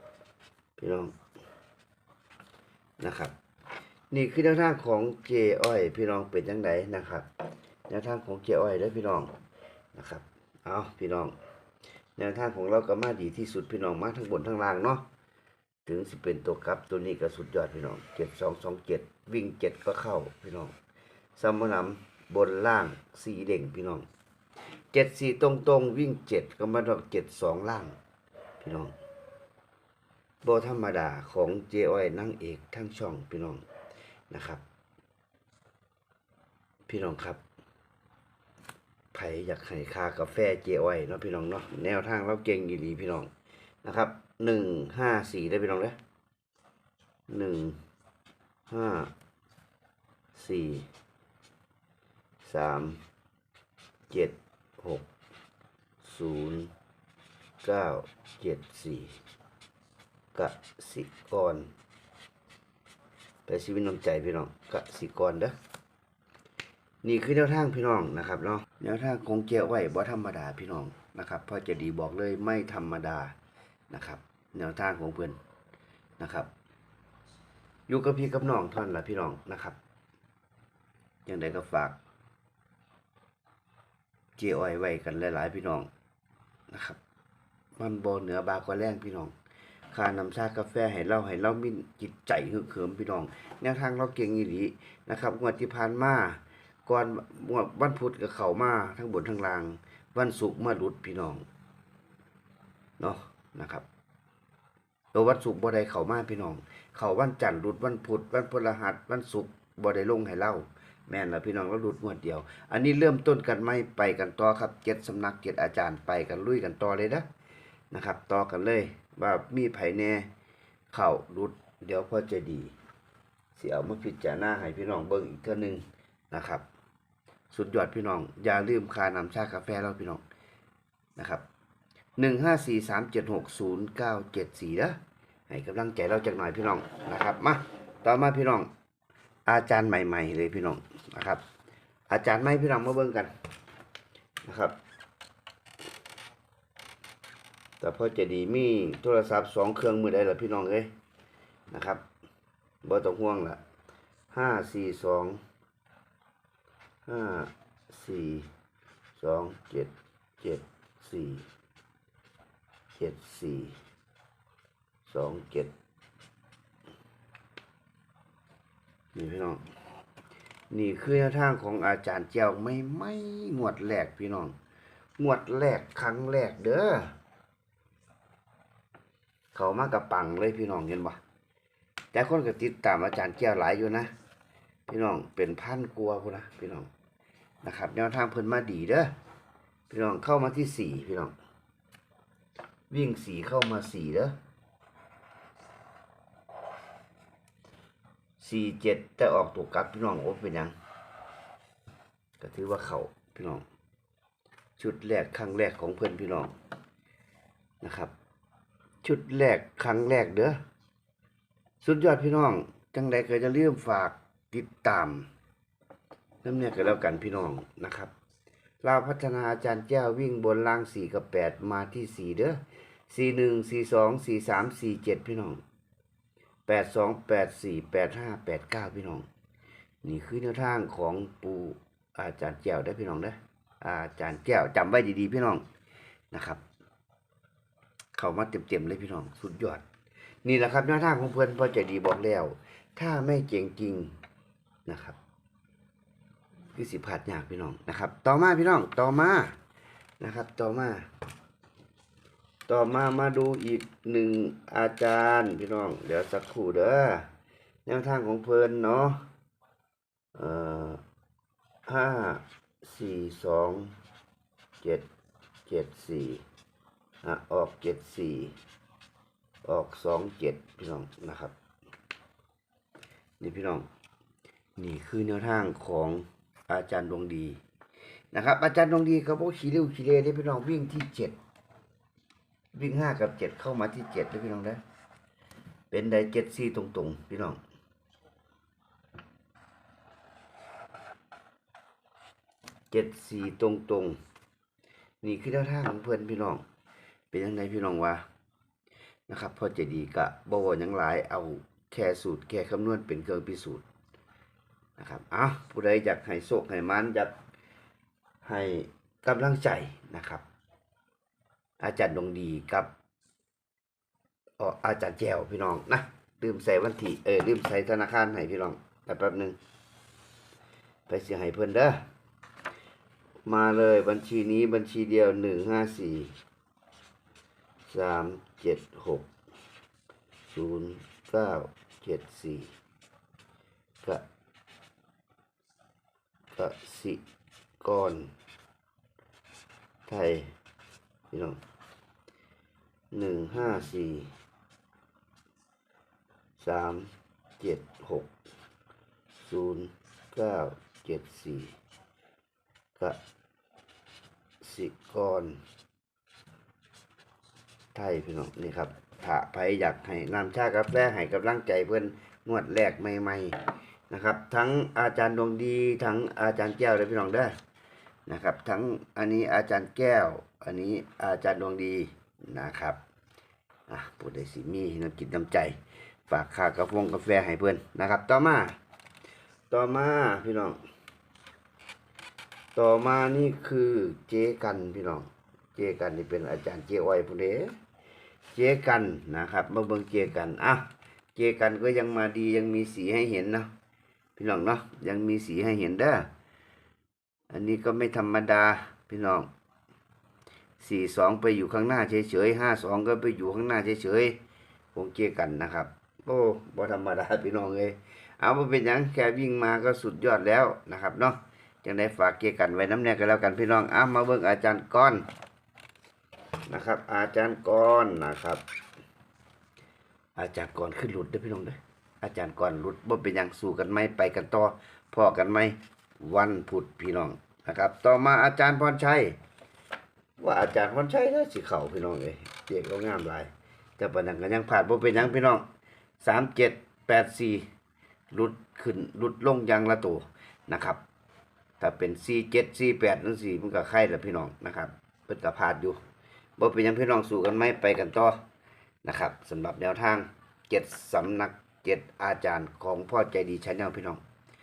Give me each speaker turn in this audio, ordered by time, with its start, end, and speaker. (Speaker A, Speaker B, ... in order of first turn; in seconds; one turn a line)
Speaker A: 0.8-1.1
Speaker A: 3.0-3.3
Speaker A: 4.1-7.3
Speaker A: 7.9-9.3
Speaker A: 9.9-11.3
Speaker A: 12.2-15.0
Speaker A: 15.8-20.7
Speaker A: 21.4-24.1
Speaker A: 24.9-27.9
Speaker A: 28.6-28.9
Speaker A: 30.4-33.6
Speaker A: 34.3-34.6
Speaker A: 36.9-37.4
Speaker A: 39.1-43.3
Speaker A: 43.8-46.0
Speaker A: 47.3-47.8
Speaker A: 48.7-49.1
Speaker A: 50.3-50.9
Speaker A: 52.4-53.0
Speaker A: 54.1-55.0
Speaker A: 56.0-56.7
Speaker A: 57.6-59.2
Speaker A: 60.3-61.7
Speaker A: 63.5-65.5
Speaker A: 67.0-73.3
Speaker A: 73.9-75.4
Speaker A: 76.2-76.5
Speaker A: 77.9-79.8
Speaker A: 81.2-82.0
Speaker A: 84.4-85.9
Speaker A: 86.7-87.0
Speaker A: 87.8-89.3
Speaker A: 89.9-101.4
Speaker A: 103.0-103.8
Speaker A: 105.1-117.3
Speaker A: 117.9-120.3
Speaker A: 120.9-122.7
Speaker A: 123.5-126.6
Speaker A: 127.5-130.2
Speaker A: 131.2-131.4
Speaker A: 132.2-135.0
Speaker A: 135.5-138.7
Speaker A: 139.4-141.4
Speaker A: 142.1-143.3
Speaker A: 144.4-144.8
Speaker A: 147.8-150.9
Speaker A: 151.7-152.0
Speaker A: 152.8-153.6
Speaker A: 154.3-155.4
Speaker A: 157.0-158.5
Speaker A: 159.2-161.4
Speaker A: 162.9-163.8
Speaker A: 165.1-165.7
Speaker A: 169.1-169.6
Speaker A: 170.7-174.5
Speaker A: 175.2-177.1
Speaker A: 179.5-181.2
Speaker A: 182.1-184.1
Speaker A: 184.9-186.9
Speaker A: 187.6-189.1
Speaker A: 189.9-191.3
Speaker A: 192.9-194.3
Speaker A: 198.4-200.7
Speaker A: 202.4-203.6
Speaker A: 204.8-206.5
Speaker A: 207.8-208.1
Speaker A: 209.0-210.6
Speaker A: 211.8-215.3
Speaker A: 216.4-218.1
Speaker A: 218.8-225.6
Speaker A: 226.7-229.2
Speaker A: 230.0-235.6
Speaker A: 236.3-236.6
Speaker A: 238.1-239.8
Speaker A: 240.4-244.1
Speaker A: 244.8-245.2
Speaker A: 246.7-249.6
Speaker A: 250.2-251.1
Speaker A: 252.7-257.3
Speaker A: 257.9-259.2
Speaker A: 260.3-261.0
Speaker A: 261.9-263.9
Speaker A: 265.6-266.4
Speaker A: 267.2-268.6
Speaker A: 269.6-271.5
Speaker A: 273.4-273.9
Speaker A: 274.8-277.6
Speaker A: 278.3-281.4
Speaker A: 282.7-284.8
Speaker A: 285.9-287.6
Speaker A: 292.9-294.2
Speaker A: 295.2-296.6
Speaker A: 297.3-298.2
Speaker A: 299.3-303.8
Speaker A: 305.0-307.3
Speaker A: 308.4-310.4
Speaker A: 311.8-312.9
Speaker A: 314.6-319.6
Speaker A: 321.1-322.0
Speaker A: 323.4-326.4
Speaker A: 327.9-329.3
Speaker A: 330.5-332.7
Speaker A: 336.6-337.2
Speaker A: 337.8-338.3
Speaker A: 340.1-340.5
Speaker A: 341.3-341.6
Speaker A: 343.1-344.3
Speaker A: 346.6-348.3
Speaker A: 349.3-351.7
Speaker A: 354.6-355.6
Speaker A: 357.9-367.5
Speaker A: 368.3-373.0
Speaker A: 373.9-378.8
Speaker A: 379.7-380.8
Speaker A: 382.7-387.7
Speaker A: 388.5-393.7
Speaker A: 394.4-396.3
Speaker A: 397.5-399.5
Speaker A: 400.8-404.4
Speaker A: 404.9-415.2
Speaker A: 416.7-418.6
Speaker A: 420.4-429.4
Speaker A: 430.4-435.6
Speaker A: 436.2-437.6
Speaker A: 438.3-441.0
Speaker A: 441.8-446.0
Speaker A: 446.6-448.4
Speaker A: 449.0-454.2